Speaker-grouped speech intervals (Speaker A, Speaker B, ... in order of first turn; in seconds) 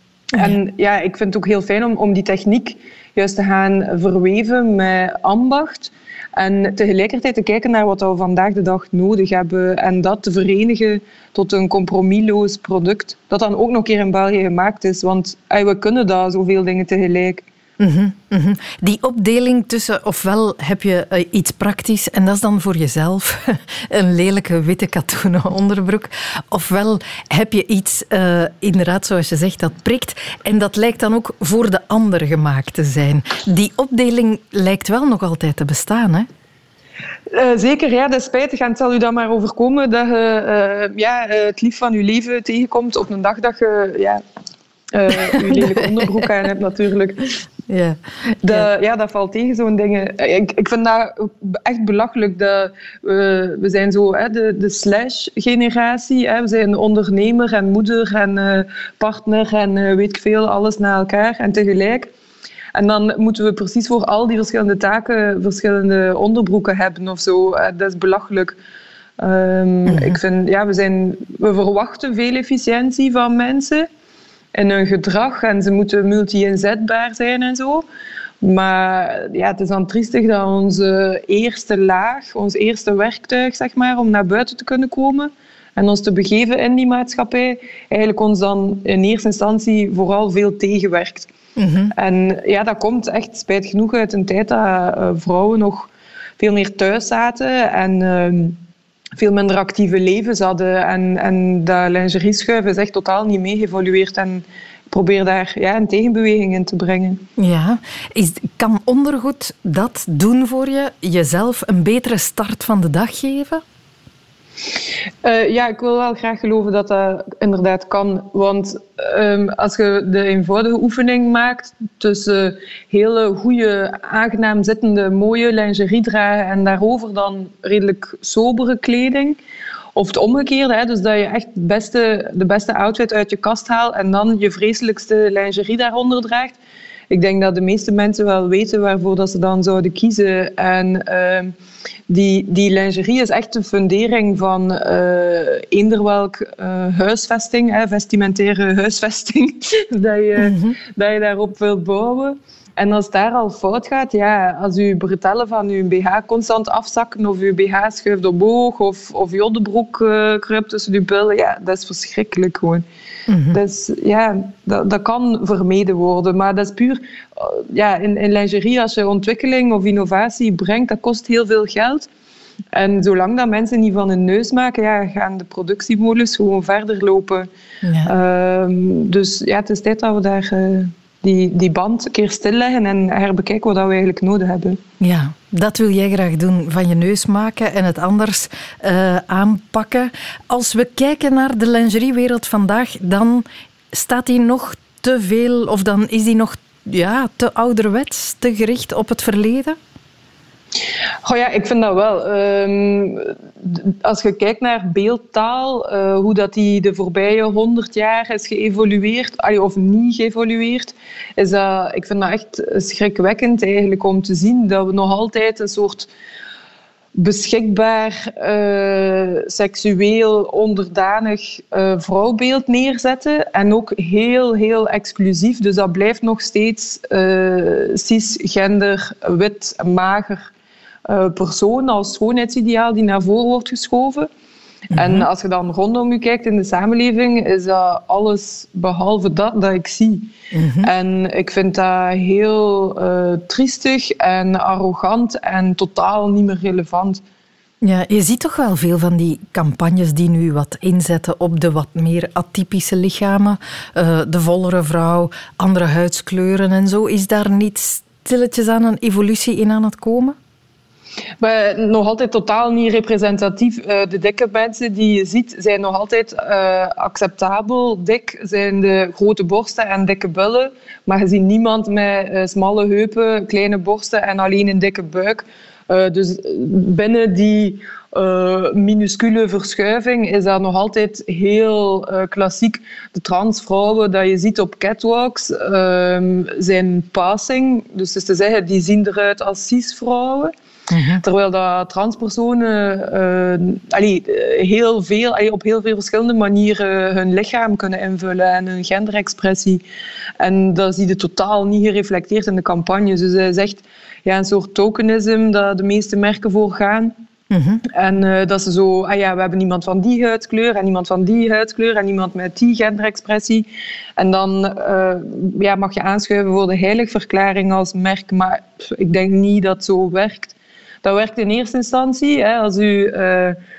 Speaker A: 0.3-17.4, 37.3-44.2, 44.9-47.4, 48.4-62.1, 62.7-68.6, 69.2-73.9, 74.5-77.8, 78.4-91.3, 91.9-98.6, 99.2-107.2, 115.2-129.4, 129.9-136.6, 137.1-141.5, 142.1-162.8, 163.5-172.1, 172.7-177.5, 178.1-184.8, 201.2-216.1, 217.2-230.5, 231.1-234.3, 234.9-240.3, 240.8-247.2, 261.4-290.5, 291.2-299.8, 300.4-307.1, 307.9-323.6
Speaker B: 17.8-36.3, 47.7-48.6, 69.9-70.2, 91.6-91.9, 107.4-113.6, 150.4-150.8, 163.3-163.6, 177.8-178.1, 185.0-199.8, 234.9-235.3, 240.5-240.9, 247.8-260.4, 290.9-291.2, 307.5-307.8